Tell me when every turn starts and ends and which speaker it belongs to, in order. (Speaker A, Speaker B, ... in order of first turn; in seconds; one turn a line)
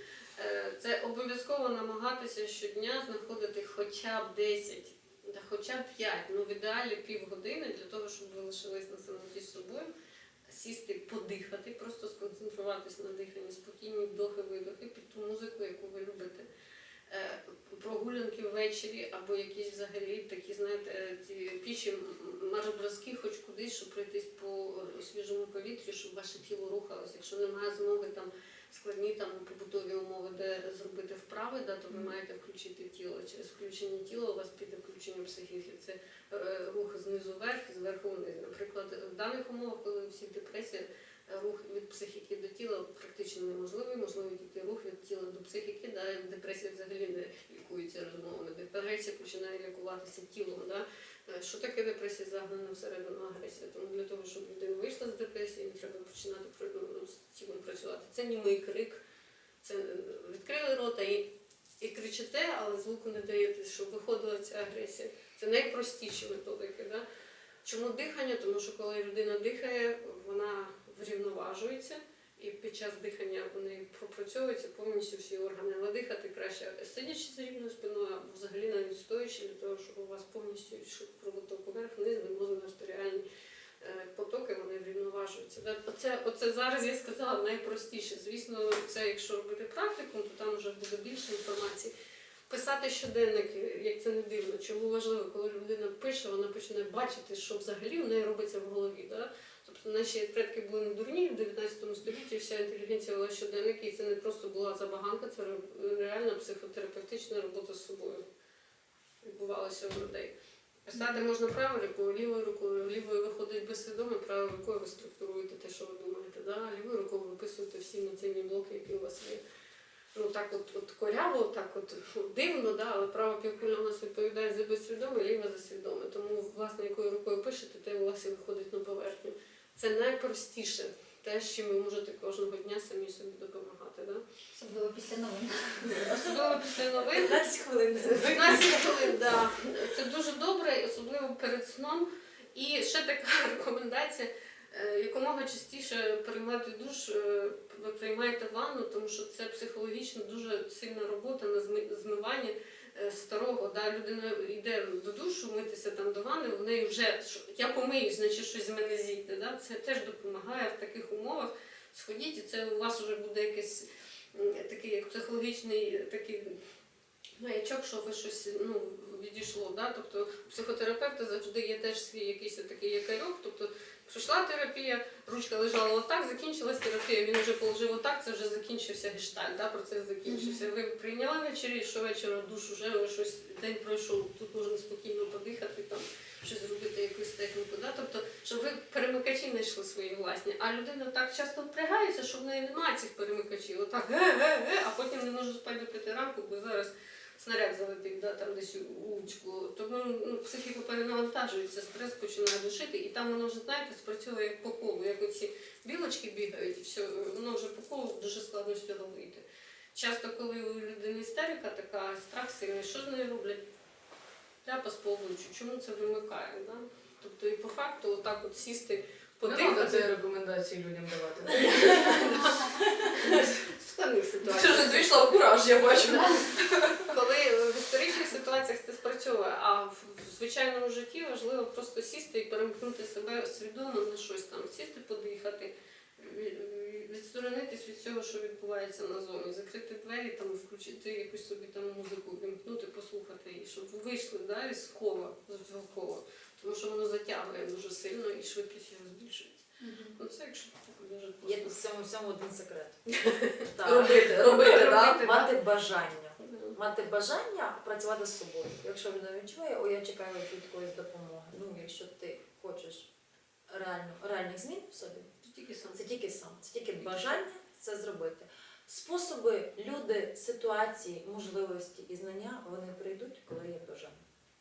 Speaker A: 0.4-9.9
Speaker A: 10.5-16.5
Speaker A: 17.1-59.0
Speaker A: 59.6-61.2
Speaker A: 61.8-67.0
Speaker A: 67.6-83.2
Speaker A: 83.8-91.9
Speaker A: 92.5-108.2
Speaker A: 109.2-110.3
Speaker A: 110.9-119.4
Speaker A: 120.1-134.2
Speaker B: 134.5-136.3
Speaker A: 135.9-137.4
Speaker C: 137.2-139.2
Speaker A: 138.0-166.6
Speaker A: 167.4-213.6
Speaker B: 180.3-180.6
Speaker A: 214.6-220.1
Speaker D: 219.4-222.5
Speaker A: 221.5-225.3
Speaker D: 223.1-223.5
Speaker D: 224.4-227.1
Speaker A: 226.0-226.3
Speaker A: 227.1-251.8
Speaker C: 251.4-253.0
Speaker A: 253.2-255.5
Speaker C: 253.7-263.1
Speaker D: 253.8-255.2
Speaker A: 256.4-256.8
Speaker C: 263.7-265.3
Speaker A: 265.4-266.1
Speaker C: 265.9-274.2
Speaker A: 267.0-267.4